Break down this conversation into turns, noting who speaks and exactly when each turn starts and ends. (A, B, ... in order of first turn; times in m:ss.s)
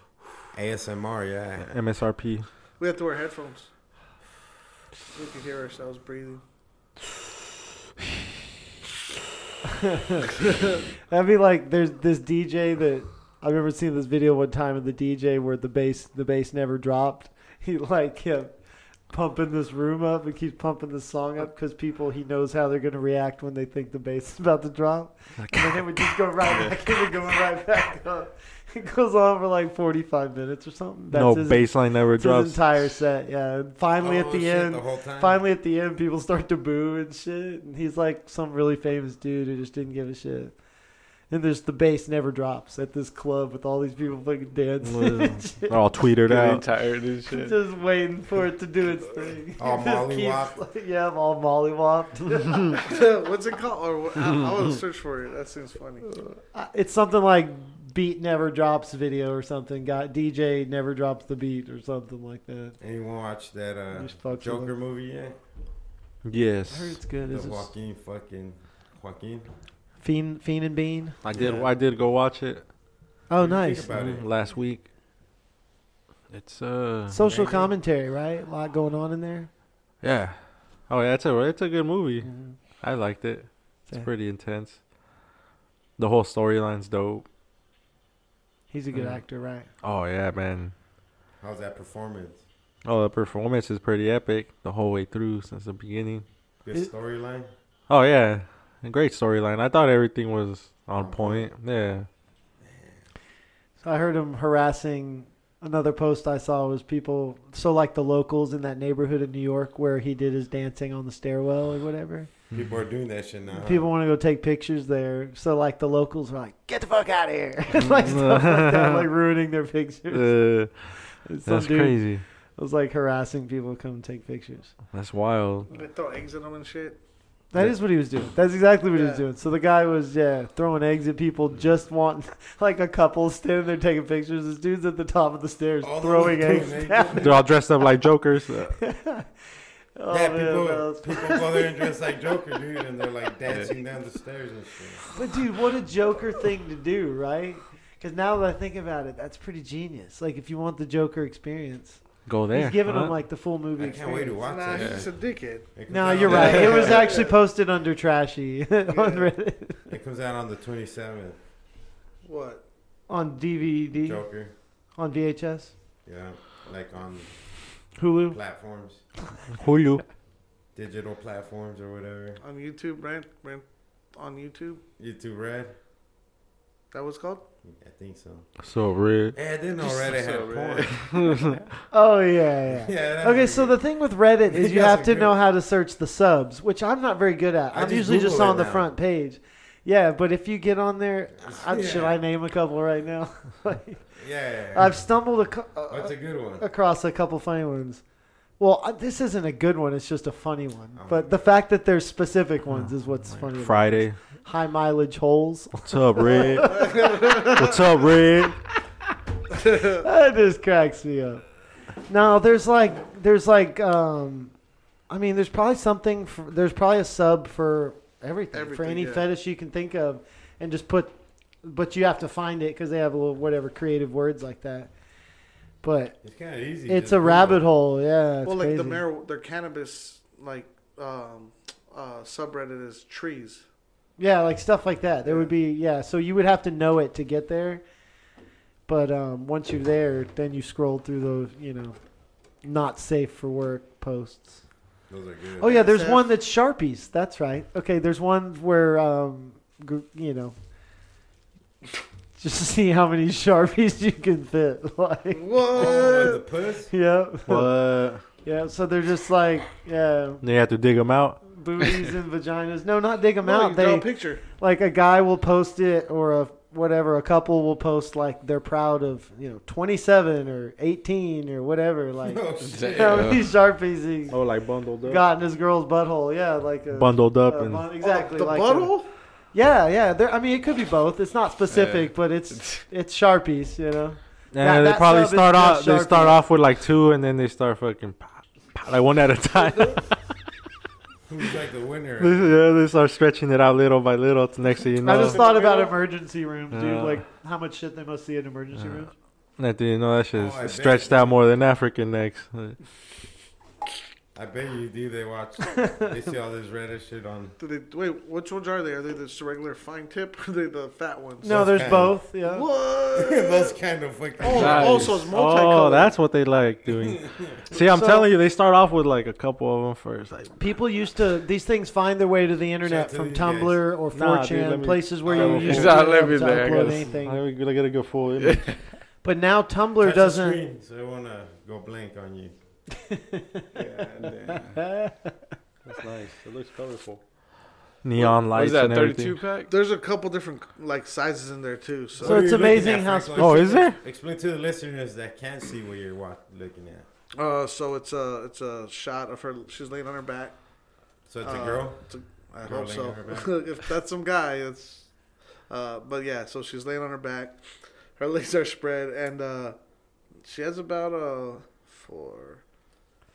0:00.5-0:01.8 A
0:01.6-0:02.5 B
0:02.8-0:03.7 C
0:05.1-0:06.4 C
0:09.8-0:10.3 D
0:11.1-0:18.6 D
0:19.1-0:40.5 D
0:25.4-0:25.9 B
0:31.1-0:32.8 B
0:34.0-0:35.4 A
0:41.3-0:45.8 D
0:44.8-0:46.6 B
0:46.2-0:47.6 E
0:47.3-0:52.8 D
0:49.6-0:50.6 A
0:52.8-0:56.1 C
0:56.1-1:02.8 D
1:02.8-1:05.4 A
1:03.9-1:04.7 D
1:06.2-1:07.0 B
1:06.7-1:07.7 D
1:07.3-1:09.5 A
1:10.0-1:11.2 D
1:11.2-1:12.7 B
1:11.3-1:11.7 A
1:13.3-1:13.9 D
1:13.4-1:14.3 A
1:13.9-1:14.9 B
1:16.3-1:17.2 B
1:17.1-1:19.5 D
1:17.3-1:17.7 A
1:20.0-1:24.8 B
1:22.2-1:22.6 D
1:26.0-1:27.3 B
1:28.7-1:29.7 D
1:28.9-1:29.2 B
1:29.8-1:30.7 B
1:31.4-1:32.4 A
1:32.8-1:36.2 B
1:36.6-1:37.5 A
1:37.9-1:42.1 B
1:41.0-1:41.5 A
1:42.7-1:42.9 A
1:43.8-1:52.3 D
1:52.5-1:53.9 A
1:53.5-2:00.6 D
1:57.8-1:59.1 B
2:00.1-2:00.9 B
2:01.2-2:04.7 D
2:01.4-2:02.2 B
2:04.9-2:05.7 B
2:05.7-2:07.0 C
2:07.5-2:17.3 D
2:08.9-2:09.2 C
2:15.8-2:17.4 A
2:17.2-2:18.8 B
2:18.8-2:19.3 D
2:20.0-2:21.9 D
2:20.1-2:25.0 A
2:25.1-2:34.5 D
2:32.3-2:33.2 B
2:33.8-2:37.1 A
2:34.4-2:37.4 C
2:34.8-2:35.0 E
2:35.9-2:39.9 D
2:38.9-2:39.3 C
2:39.9-2:41.4 A
2:42.2-2:42.6 C
2:43.1-2:44.3 D
2:44.0-2:44.5 A
2:45.0-2:45.7 D
2:46.0-2:47.3 A
2:48.0-2:48.4 D
2:48.3-2:49.0 A
2:49.5-2:50.0 B
2:50.7-2:52.4 A
2:52.4-2:54.8 C
2:55.0-2:55.7 A
2:56.9-2:57.4 C
2:57.6-2:58.5 A
2:58.6-2:59.4 B
2:59.3-3:01.3 A
2:59.8-3:01.4 E
3:01.3-3:01.6 B
3:01.9-3:14.0 D
3:02.7-3:03.8 A
3:04.4-3:05.4 A
3:07.7-3:08.9 A
3:11.4-3:12.2 A
3:14.2-3:15.0 A
3:14.7-3:18.0 D
3:15.9-3:16.6 A
3:18.6-3:27.5 D
3:21.0-3:21.4 A
3:22.7-3:24.2 B
3:25.8-3:28.6 B
3:26.7-3:27.6 C
3:29.6-3:30.0 C
3:29.6-3:31.4 D
3:32.1-3:34.5 D
3:35.1-3:44.9 D
3:38.5-3:39.3 C
3:45.8-3:46.2 D
3:46.2-3:47.6 A
3:46.9-3:49.0 D
3:48.4-3:53.6 C
3:54.2-3:57.8 D
3:55.2-3:55.5 C
3:58.9-4:02.0 D
4:02.6-4:04.6 D
4:05.1-4:05.8 A
4:05.6-4:10.6 D
4:05.6-4:06.3 C
4:12.4-4:15.5 D
4:15.3-4:16.4 C
4:15.7-4:16.9 A
4:16.9-4:17.7 D
4:17.5-4:18.2 B
4:18.4-4:20.4 D
4:20.4-4:21.4 B
4:21.4-4:34.4 D
4:23.4-4:24.4 C
4:32.2-4:33.4 A
4:32.7-4:33.5 E
4:34.3-4:35.2 B
4:35.0-4:39.0 D
4:36.9-4:37.9 B
4:38.0-4:39.1 C
4:39.5-4:46.4 D
4:41.7-4:42.8 E
4:44.5-4:50.2 B
4:51.3-4:52.6 A
4:52.2-4:55.4 B
4:55.0-4:59.1 D
4:55.1-4:56.0 C
4:56.7-4:57.2 B
4:59.6-5:02.8 B
5:00.3-5:01.6 A
5:04.3-5:07.6 A
5:05.8-5:06.1 D
5:07.6-5:11.7 C
5:11.4-5:12.7 D
5:11.4-5:12.2 A
5:12.4-5:13.7 C
5:13.1-5:15.1 A
5:14.4-5:16.1 C
5:14.6-5:15.2 E
5:14.6-5:20.6 B
5:16.9-5:17.6 A
5:17.7-5:18.3 D
5:20.6-5:27.4 D
5:22.8-5:23.8 A
5:24.1-5:26.1 B
5:25.3-5:25.6 A
5:25.4-5:27.1 E
5:27.2-5:28.8 B
5:28.4-5:28.8 E
5:29.2-5:30.6 D
5:30.0-5:32.5 A
5:33.1-5:33.6 D
5:33.7-5:34.9 E
5:34.7-5:35.3 D
5:35.8-5:37.2 B
5:38.0-5:39.4 B
5:38.2-5:39.7 E
5:39.7-5:42.8 C
5:42.2-5:47.1 A
5:42.2-5:43.8 D
5:43.3-5:44.0 B
5:47.4-5:50.6 C
5:51.3-5:52.0 A
5:51.4-5:55.1 C
5:52.6-5:53.6 A
5:55.7-5:57.6 C
5:58.2-5:59.8 C
6:00.4-6:02.6 C